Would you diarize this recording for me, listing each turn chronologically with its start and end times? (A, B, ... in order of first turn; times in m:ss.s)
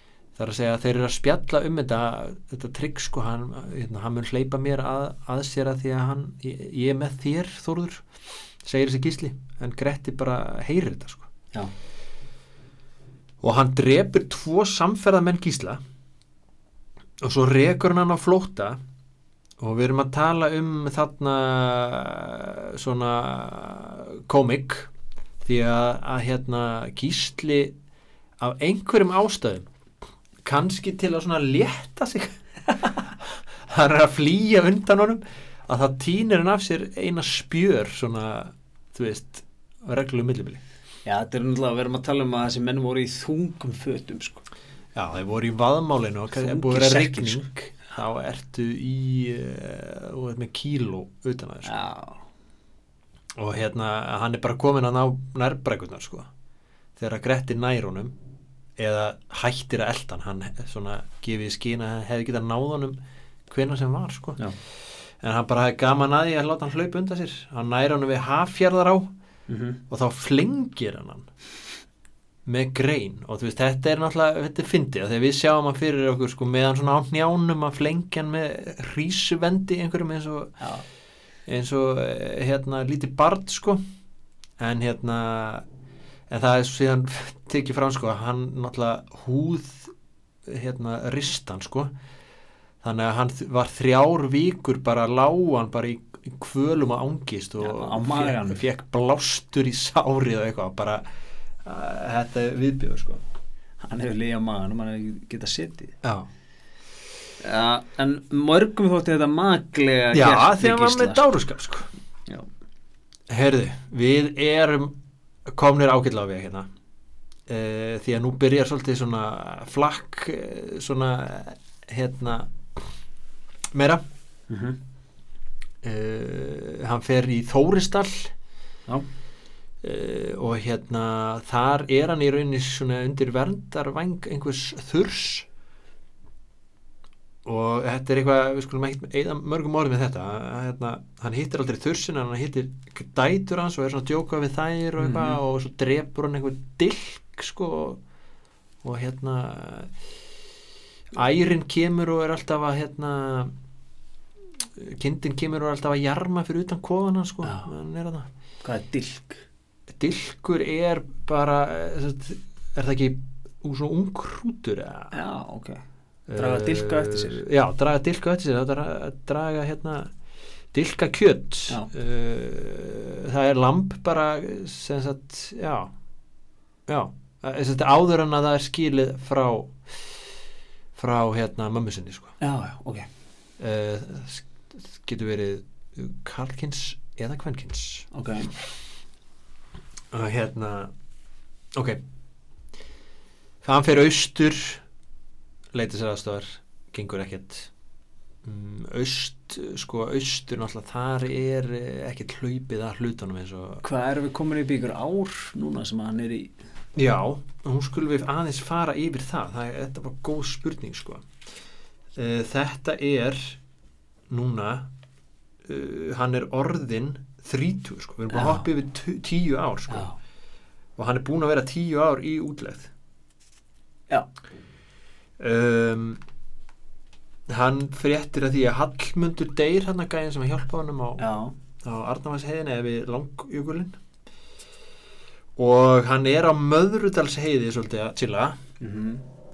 0:00.4-0:08.0 A
0:08.6-0:11.3 A
0:13.4-0:15.8 A
0:17.2-0:18.8 A
0:19.6-0:24.9 A
0:25.4-0:27.8 A
0:28.4-0:29.7 A
0:30.4-0:40.6 A
0:41.1-0:44.4 B
0:45.0-0:51.7 A
0:46.3-0:47.5 B
0:51.6-0:52.2 B
0:53.4-0:56.3 A
0:57.0-0:58.2 A
0:58.8-1:04.4 A
1:05.2-1:09.1 A
1:09.5-1:09.8 B
1:09.9-1:11.3 A
1:12.5-1:20.6 A
1:20.6-1:20.8 B
1:21.5-1:23.8 A
1:24.6-1:25.7 A
1:26.3-1:29.9 A
1:30.5-1:31.9 A
1:32.8-1:41.0 A
1:37.6-1:38.6 B
1:41.6-1:43.2 A
1:43.8-1:46.0 B
1:46.0-1:46.3 A
1:47.4-1:51.2 B
1:50.1-1:51.9 A
1:53.3-1:55.0 A
1:55.5-1:56.7 A
1:57.5-2:02.8 A
2:03.7-2:04.0 A
2:04.5-2:04.8 B
2:05.8-2:08.3 A
2:09.8-2:15.5 A
2:17.4-2:28.0 A
2:25.0-2:25.4 B
2:28.8-2:29.9 A
2:31.1-2:33.5 A
2:34.8-2:38.3 A
2:37.4-2:37.7 B
2:38.6-2:39.4 B
2:39.9-2:45.1 A
2:45.1-2:45.8 B
2:46.3-2:50.1 A
2:46.4-2:47.4 B
2:50.7-2:55.9 A
2:56.9-3:00.0 A
3:01.0-3:02.3 A
3:02.4-3:03.1 B
3:03.6-3:08.1 A
3:08.1-3:08.5 B
3:10.1-3:10.9 A
3:11.8-3:12.0 A
3:13.6-3:14.8 A
3:15.7-3:17.7 A
3:18.4-3:23.8 A
3:23.8-3:26.5 B
3:27.0-3:31.2 A
3:32.2-3:33.6 A
3:34.3-3:34.9 A
3:35.6-3:40.1 A
3:38.3-3:38.7 B
3:39.9-3:40.2 B
3:41.0-3:42.9 A
3:45.4-3:46.2 A
3:47.5-3:51.3 A
3:51.2-3:51.5 B
3:51.8-3:54.0 A
3:55.6-3:58.6 A
3:58.8-3:59.3 B